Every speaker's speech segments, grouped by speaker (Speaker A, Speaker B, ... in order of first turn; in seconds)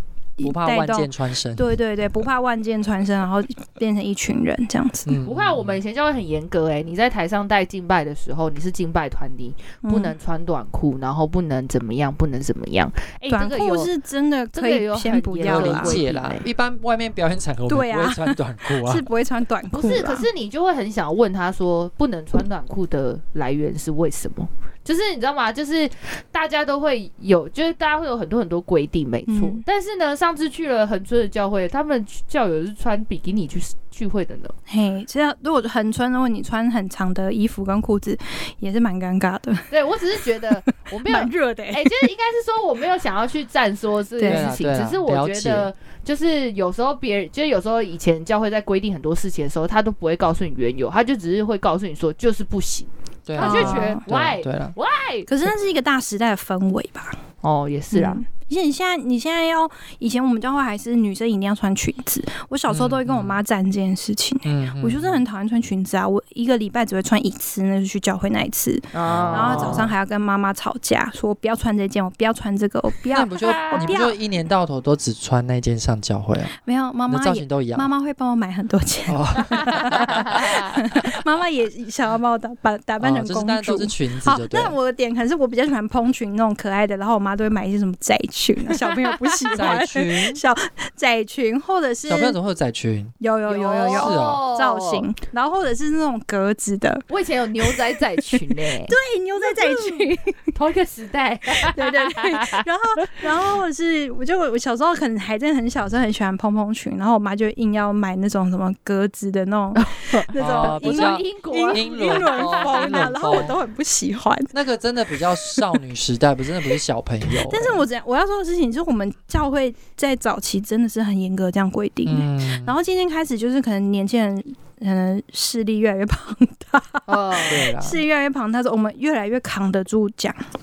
Speaker A: 0.4-5.2, 9.8-10.2, 13.3-16.0, 17.7-20.3, 29.3-29.6, 34.7-39.7, 40.4-42.1, 44.2-44.5, 53.4-54.0, 55.3-57.2, 57.9-74.2, 76.6-92.4, 93.2-97.0, 97.6-100.5, 101.5-114.5, 117.4-130.4
Speaker B: 0.4-1.7, 5.1-5.8, 15.4-19.1, 44.2-45.7, 53.3-54.7, 62.7-63.4, 64.5-65.2, 69.0-69.9, 73.1-76.5, 77.1-77.9, 79.1-80.5, 83.0-84.8, 89.5-90.4, 92.1-93.1, 93.9-94.4, 110.4-113.6, 114.5-117.8, 122.1-122.8, 127.5-128.0
Speaker C: 5.3-13.9, 14.5-16.5, 19.7-34.5, 39.7-55.3, 57.4-58.2, 68.9-69.9, 73.4-74.0, 80.3-80.6, 88.9-89.4, 93.5-95.1, 97.1-103.3, 109.8-113.4, 127.1-127.7